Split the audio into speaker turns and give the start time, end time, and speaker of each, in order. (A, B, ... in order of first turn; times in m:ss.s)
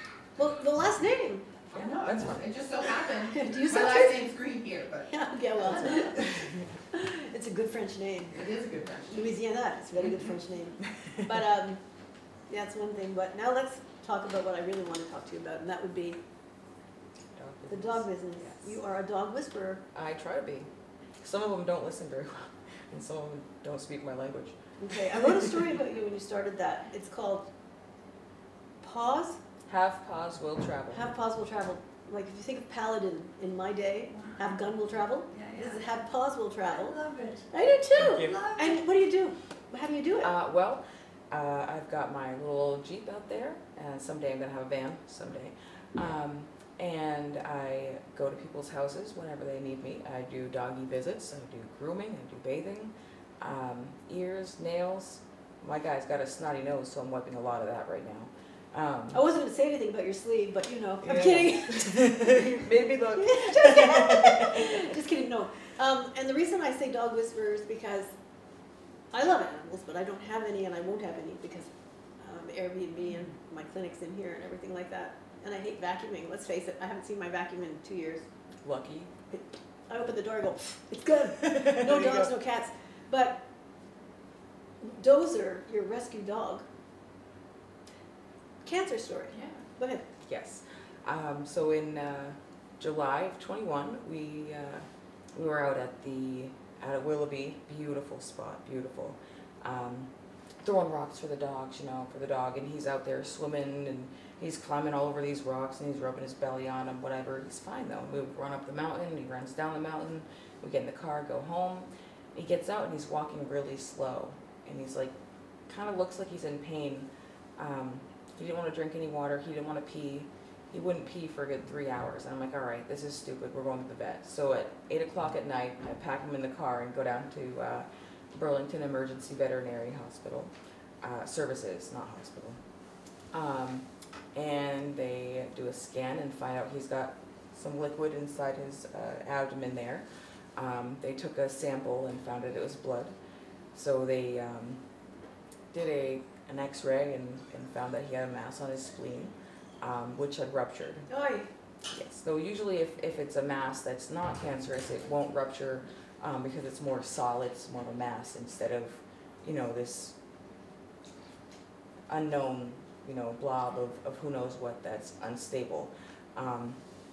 0:00.4-0:02.1 A
0:01.7-0:06.2 B
0:02.0-0:02.5 C
0:03.1-0:04.3 A
0:05.1-0:06.3 A
0:06.4-0:06.6 C
0:06.9-0:08.4 A
0:08.3-0:09.3 B
0:09.1-0:11.8 A
0:12.5-0:16.2 A
0:17.3-0:18.7 C
0:17.7-0:19.8 A
0:19.9-0:20.7 C
0:21.2-0:25.5 C
0:24.8-0:27.5 A
0:28.8-0:29.4 A
0:29.7-0:31.2 C
0:30.9-0:37.0 A
0:34.2-0:34.5 D
0:35.3-0:35.8 D
0:36.7-0:37.5 D
0:37.5-0:40.3 A
0:38.0-0:38.5 C
0:38.3-0:38.6 D
0:40.2-0:59.3 C
0:59.1-1:08.1 A
1:01.0-1:04.9 C
1:09.1-1:18.3 A
1:18.6-1:19.1 C
1:19.3-1:23.4 A
1:21.4-1:22.3 C
1:24.8-1:26.6 A
1:28.6-1:30.1 A
1:30.3-1:40.1 C
1:40.6-1:55.1 C
1:55.7-2:12.6 C
2:13.3-2:20.0 C
2:20.6-2:23.1 C
2:23.7-2:24.8 C
2:25.7-2:31.1 C
2:31.1-2:31.5 A
2:31.9-2:40.2 C
2:42.1-2:46.8 C